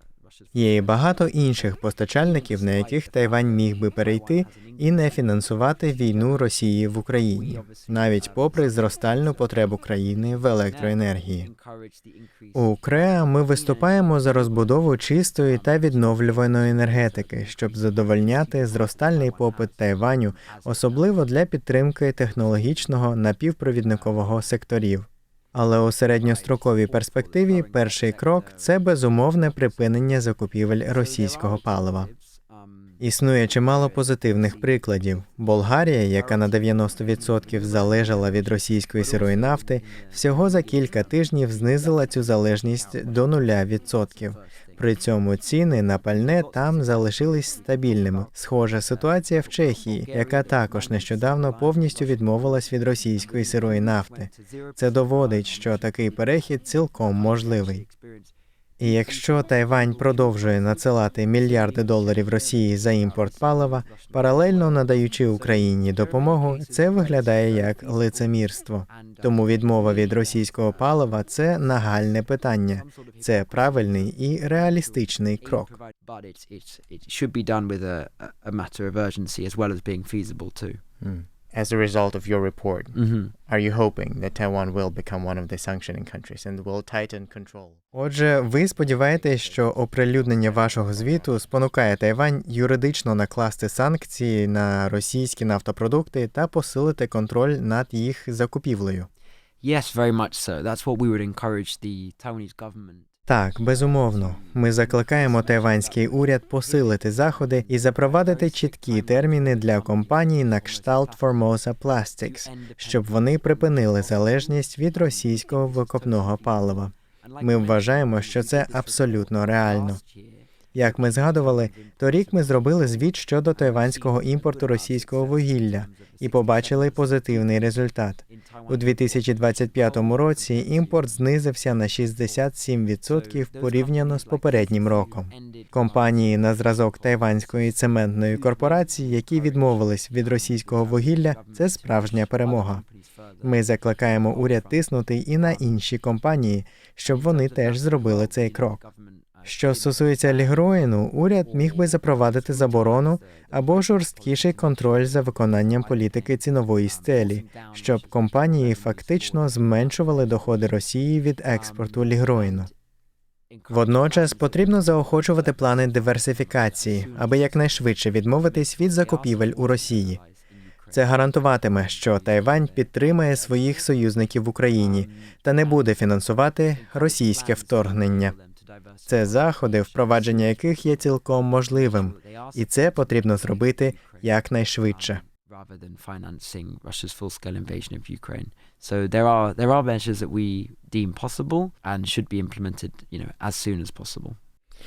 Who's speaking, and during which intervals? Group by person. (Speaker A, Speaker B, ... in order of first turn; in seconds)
Speaker A: 0.2-6.5, 7.3-9.6, 10.7-12.8, 13.5-14.8, 15.4-21.1, 23.9-24.2, 26.2-28.9, 30.9-33.0, 33.5-34.8, 36.1-45.0, 46.1-48.3, 48.9-58.3, 58.8-68.4, 68.9-71.0, 72.7-80.8, 82.9-83.3, 89.1-89.9, 90.6-91.2, 99.6-103.1, 103.7-111.2, 112.2-127.6, 128.3-131.2, 132.1-132.4, 133.1-144.8, 145.4-145.6, 147.1-150.6, 151.4-160.0, 161.6-162.7, 163.5-171.2, 171.7-173.9, 174.7-175.9, 176.8-181.0, 181.7-194.4
Speaker B: 0.5-11.5, 12.5-32.1, 33.0-57.8, 58.8-75.7, 87.9-99.1, 103.3-120.0, 120.7-142.8, 143.4-148.8, 149.4-162.7, 163.7-170.2, 170.9-178.3, 179.1-185.2
Speaker C: 81.0-87.8